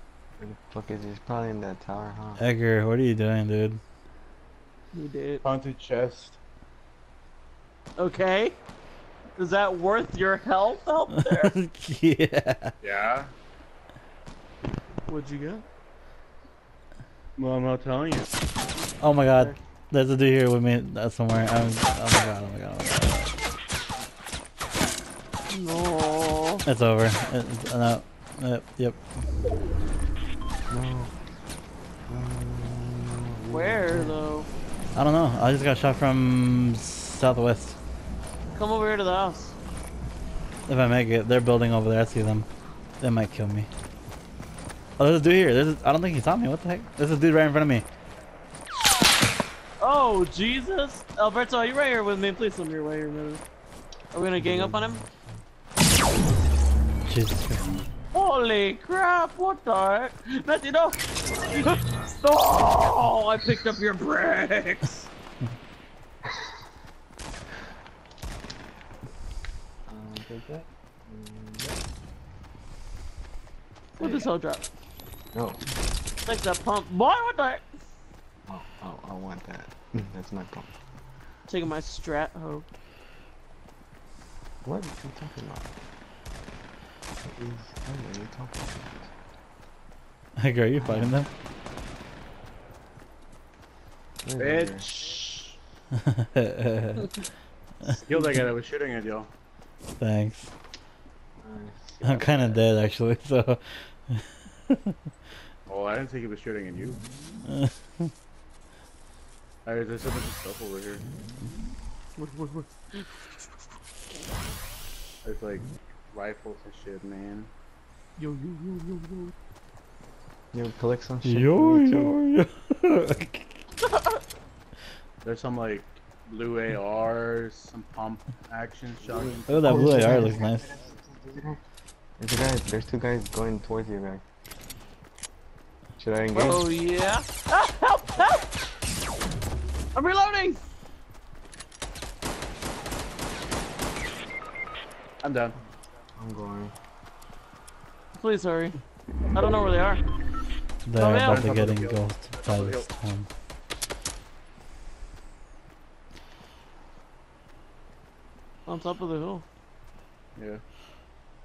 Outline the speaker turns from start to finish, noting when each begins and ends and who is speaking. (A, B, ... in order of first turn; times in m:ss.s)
0:00.4-0:02.4 A
0:02.4-0:03.8 B
0:04.9-0:05.4 C
0:05.4-0:06.4 D
0:08.0-0:08.6 C
0:09.4-0:11.6 C
0:11.3-0:12.8 B
0:12.8-0:13.3 D
0:15.1-0:15.6 C
0:17.4-0:18.3 D
0:19.0-0:23.4 B
0:25.5-0:26.6 C
0:26.6-0:29.0 B
0:30.7-0:31.1 A
0:32.1-0:34.2 A
0:33.5-0:34.5 C
0:34.9-0:37.8 B
0:38.5-0:39.6 C
0:40.7-0:42.5 B
0:43.0-0:43.7 B
0:45.0-0:47.8 B
0:49.8-0:53.4 C
0:54.1-0:55.0 C
0:54.4-0:55.2 A
0:57.0-0:57.8 B
0:58.1-1:01.0 C
1:01.5-1:05.1 C
1:09.9-1:11.8 A
1:14.0-1:14.7 C
1:14.0-1:14.3 A
1:15.3-1:15.6 A
1:16.2-1:17.6 C
1:18.5-1:20.7 A
1:21.5-1:22.6 C
1:24.6-1:25.7 A
1:27.2-1:29.1 A
1:30.4-1:31.3 B
1:30.8-1:31.2 A
1:34.2-1:34.8 A
1:34.4-1:35.6 D
1:36.0-1:37.1 B
1:37.8-1:39.3 D
1:40.0-1:40.5 B
1:41.4-1:42.7 A
1:42.0-1:44.9 B
1:45.7-1:47.0 D
1:47.5-1:48.1 B
1:49.6-1:51.0 D
1:52.2-1:53.2 C
1:55.2-1:57.5 D
1:58.2-1:59.3 C
2:00.5-2:02.2 A
2:01.2-2:03.5 B
2:03.9-2:04.2 C
2:05.2-2:09.8 D
2:09.1-2:11.6 A
2:09.5-2:10.8 B
2:12.2-2:14.2 A
2:16.0-2:16.6 A
2:16.3-2:18.4 C
2:19.9-2:20.6 C
2:25.2-2:25.6 D
2:26.2-2:26.7 A
2:28.2-2:28.8 C
2:29.3-2:30.0 C
2:30.8-2:33.3 B
2:30.9-2:31.5 C
2:31.2-2:32.9 D
2:38.7-2:39.4 C
2:40.4-2:40.6 D